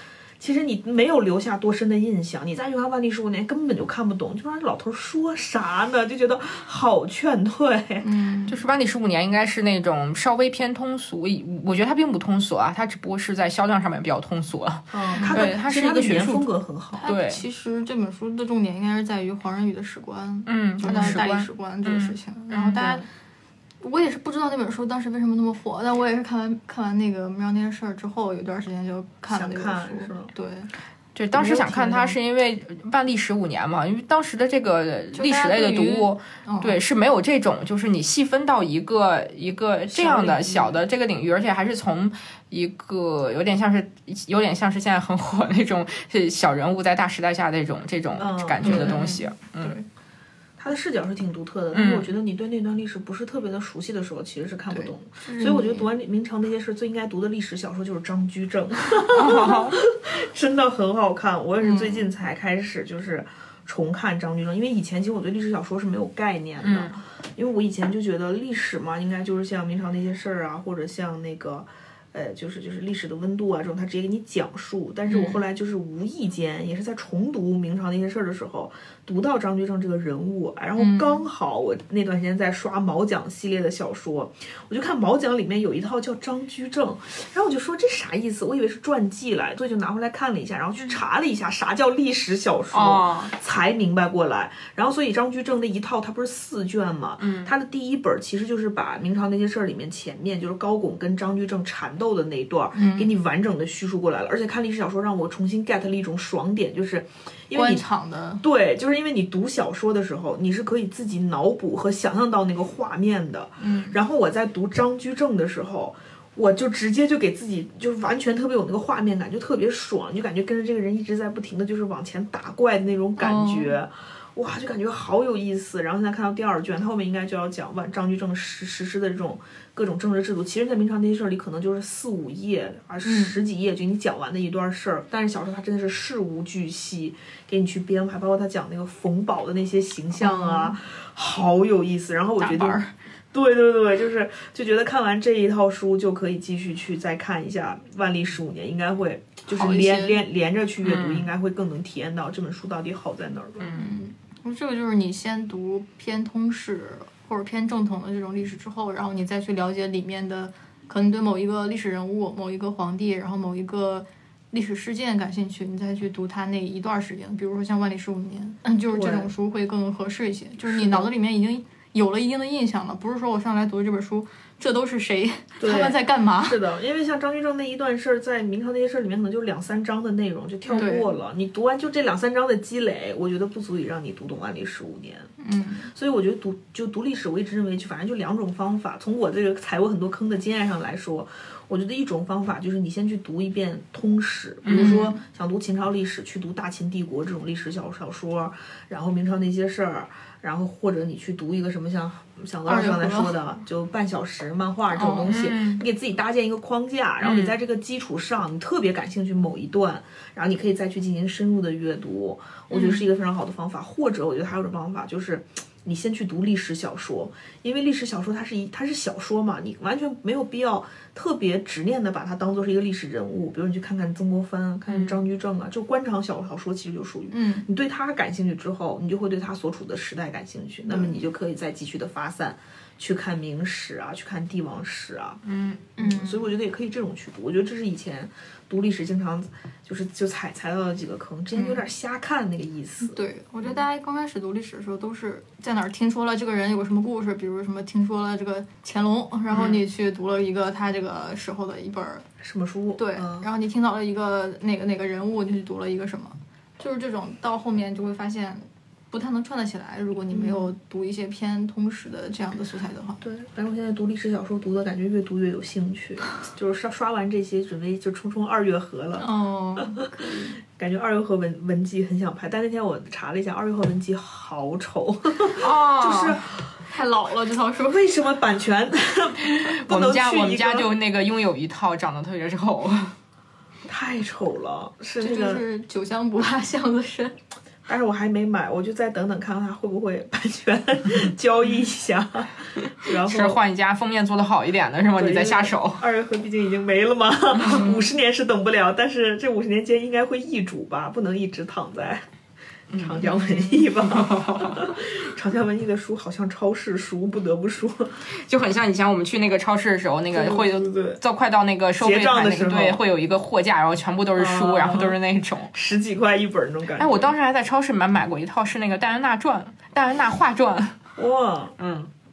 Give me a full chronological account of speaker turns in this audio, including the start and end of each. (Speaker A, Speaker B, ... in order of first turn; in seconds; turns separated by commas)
Speaker A: 0.4-8.1, Speaker B: 8.0-8.6, Speaker C: 8.5-16.5, Speaker A: 14.9-17.1, Speaker B: 15.1-15.5, Speaker B: 17.0-23.1, Speaker C: 17.1-17.4, Speaker C: 20.5-22.8, Speaker A: 20.9-21.2, Speaker A: 22.8-23.0, Speaker B: 23.8-30.7, Speaker A: 29.3-30.3, Speaker C: 31.1-49.8, Speaker A: 31.3-32.2, Speaker B: 35.1-36.8, Speaker A: 39.9-40.8, Speaker A: 48.2-49.1, Speaker B: 48.6-49.9, Speaker A: 50.6-107.8, Speaker C: 51.7-52.1, Speaker B: 54.7-55.9, Speaker C: 59.1-59.8, Speaker B: 61.6-62.1, Speaker C: 66.6-67.0, Speaker C: 75.1-75.4, Speaker B: 80.8-81.2, Speaker C: 92.7-93.3, Speaker C: 97.2-97.5, Speaker B: 102.8-103.1, Speaker B: 107.5-108.4, Speaker A: 108.4-142.8, Speaker B: 113.6-114.0, Speaker B: 123.2-123.8, Speaker B: 133.0-133.4, Speaker B: 140.2-140.8, Speaker B: 142.4-142.9, Speaker A: 143.3-153.7, Speaker B: 149.5-150.2, Speaker C: 150.8-151.3, Speaker C: 153.6-153.9, Speaker B: 153.8-176.6, Speaker A: 168.9-169.3, Speaker A: 170.6-171.1, Speaker A: 175.6-185.3, Speaker B: 180.7-181.1, Speaker B: 185.4-185.9, Speaker A: 185.9-235.4, Speaker C: 194.6-195.0, Speaker B: 194.7-195.2, Speaker B: 202.7-203.3, Speaker B: 204.9-205.4, Speaker C: 205.3-205.8, Speaker C: 207.2-207.5, Speaker B: 212.7-213.1, Speaker C: 224.9-225.2, Speaker B: 227.3-227.7, Speaker B: 230.9-231.2, Speaker C: 235.4-235.8, Speaker B: 236.0-236.5, Speaker A: 236.0-243.8, Speaker B: 243.0-252.3, Speaker C: 249.5-249.8, Speaker A: 252.4-253.5, Speaker B: 253.0-263.2, Speaker A: 260.3-260.7, Speaker A: 263.2-269.3, Speaker B: 269.2-270.6, Speaker A: 269.8-276.7, Speaker C: 275.5-276.4, Speaker B: 276.9-278.3, Speaker A: 277.8-280.9, Speaker C: 279.5-283.1, Speaker A: 283.9-285.6, Speaker B: 285.2-287.4, Speaker A: 287.9-293.6, Speaker C: 293.0-296.0, Speaker A: 295.2-302.2, Speaker C: 297.6-298.0, Speaker C: 302.9-304.9, Speaker A: 303.0-308.2, Speaker C: 308.4-315.7, Speaker A: 310.3-311.2, Speaker A: 312.0-313.0, Speaker A: 314.4-315.2, Speaker A: 315.7-317.3, Speaker C: 317.0-321.0, Speaker A: 321.2-321.8, Speaker C: 321.8-322.1